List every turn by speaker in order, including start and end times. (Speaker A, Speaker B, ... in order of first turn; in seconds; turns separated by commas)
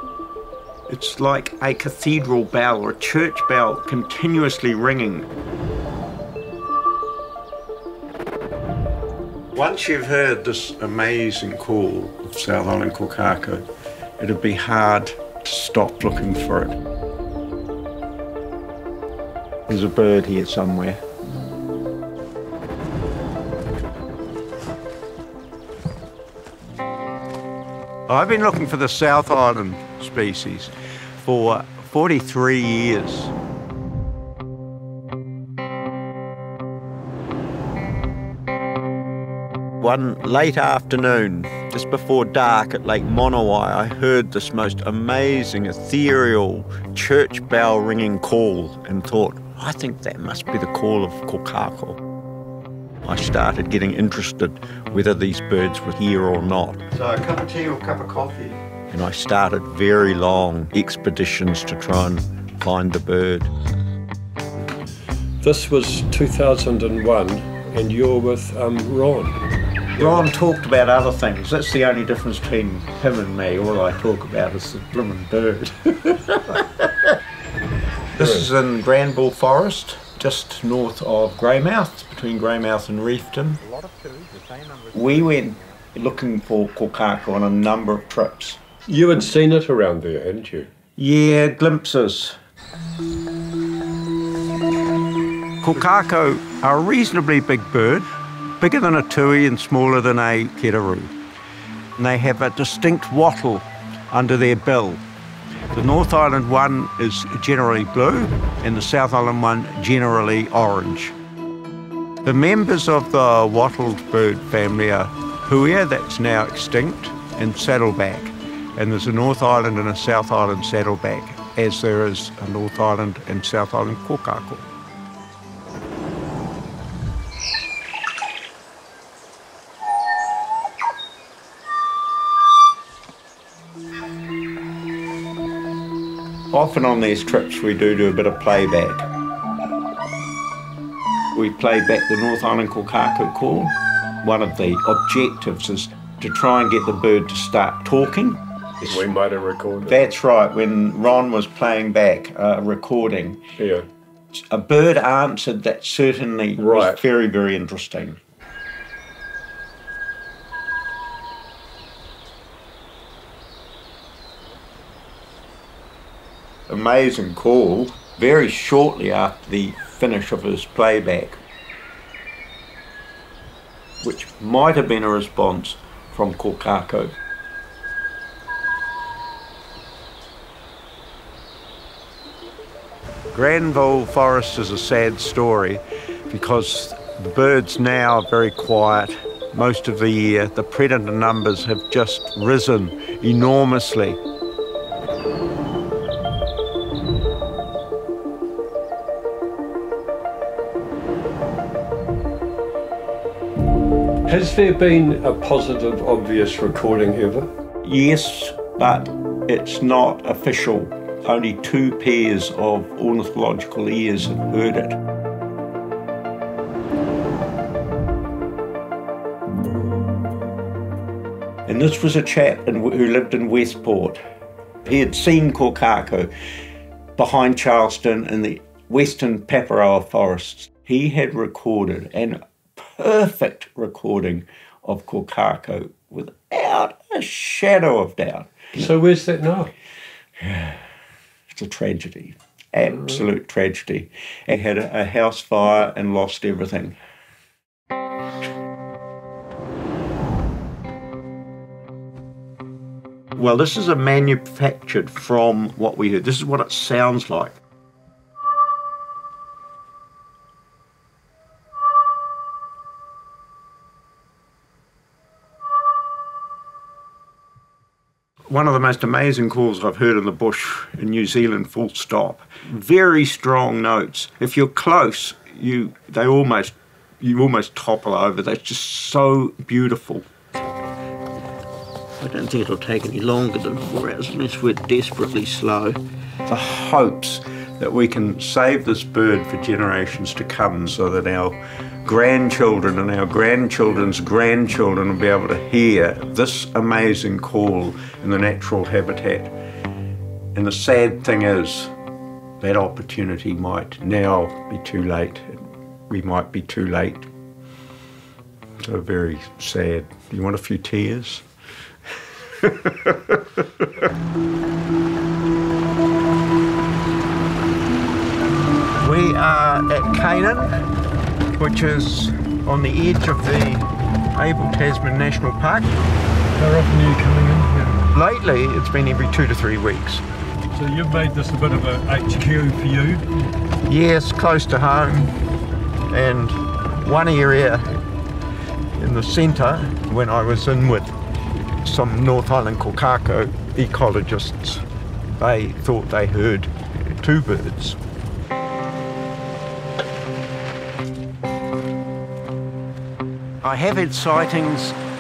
Speaker A: 0.9-5.3, Speaker A: 9.5-13.6, Speaker A: 14.2-16.8, Speaker A: 19.7-21.0, Speaker A: 28.1-33.3, Speaker A: 39.8-52.0, Speaker A: 53.0-63.5, Speaker B: 65.4-69.4, Speaker A: 70.0-77.1, Speaker A: 78.1-83.7, Speaker B: 78.2-78.5, Speaker A: 84.9-88.6, Speaker B: 88.9-90.7, Speaker A: 91.0-92.4, Speaker A: 95.6-98.0, Speaker A: 98.6-101.1, Speaker A: 102.0-105.0, Speaker A: 105.7-111.1, Speaker A: 112.2-124.7, Speaker A: 136.5-139.1, Speaker A: 141.3-149.0, Speaker B: 148.8-150.1, Speaker A: 149.8-153.4, Speaker B: 153.6-153.9, Speaker A: 154.3-158.2, Speaker B: 156.6-157.0, Speaker A: 166.7-171.4, Speaker A: 174.0-177.2, Speaker A: 183.3-194.2, Speaker B: 204.2-207.5, Speaker A: 207.8-215.0, Speaker A: 221.7-224.2, Speaker A: 224.8-226.3, Speaker A: 227.2-238.9, Speaker B: 238.8-239.7, Speaker A: 240.4-240.8, Speaker A: 241.5-247.0, Speaker A: 253.3-257.6, Speaker A: 268.5-280.3, Speaker A: 282.2-299.5, Speaker A: 300.5-301.9, Speaker A: 302.6-307.3, Speaker A: 308.8-311.4, Speaker A: 312.4-313.8, Speaker A: 319.0-320.8, Speaker A: 321.6-326.0, Speaker B: 326.5-328.0, Speaker A: 328.1-330.2, Speaker B: 330.7-333.3, Speaker A: 333.8-335.4, Speaker A: 336.1-338.0, Speaker A: 339.0-341.1, Speaker A: 341.8-344.9, Speaker A: 345.4-348.0, Speaker A: 353.6-355.0